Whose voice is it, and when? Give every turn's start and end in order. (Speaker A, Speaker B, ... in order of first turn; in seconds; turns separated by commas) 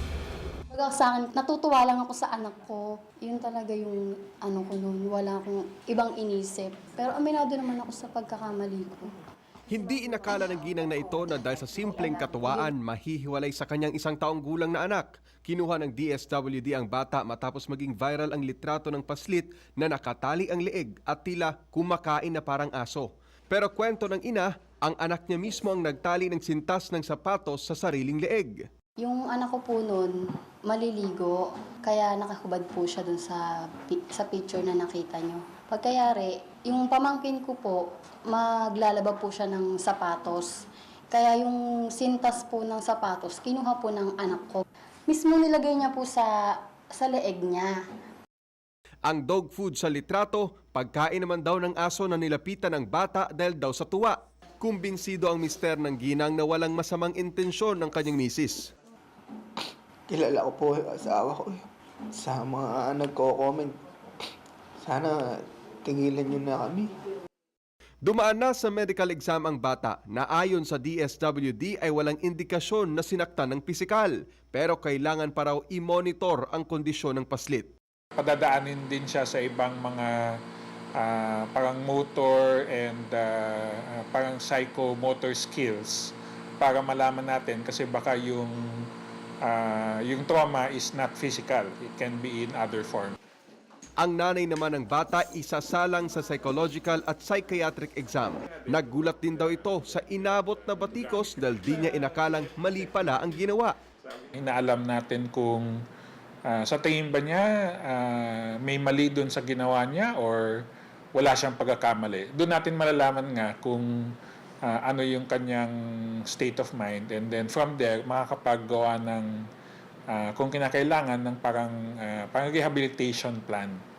Speaker A: 0.7-9.1, Speaker B: 9.7-28.5, Speaker A: 29.0-30.1, Speaker A: 30.7-40.5, Speaker A: 41.1-47.8, Speaker B: 49.1-58.7, Speaker C: 60.1-63.8, Speaker C: 64.8-66.9, Speaker B: 68.0-77.7, Speaker D: 78.2-80.1, Speaker D: 81.0-88.8, Speaker D: 89.4-93.2, Speaker B: 94.0-103.8, Speaker D: 104.3-105.7, Speaker D: 106.5-110.5, Speaker D: 111.2-114.1, Speaker D: 114.6-115.7, Speaker D: 116.3-119.3, Speaker D: 120.1-123.8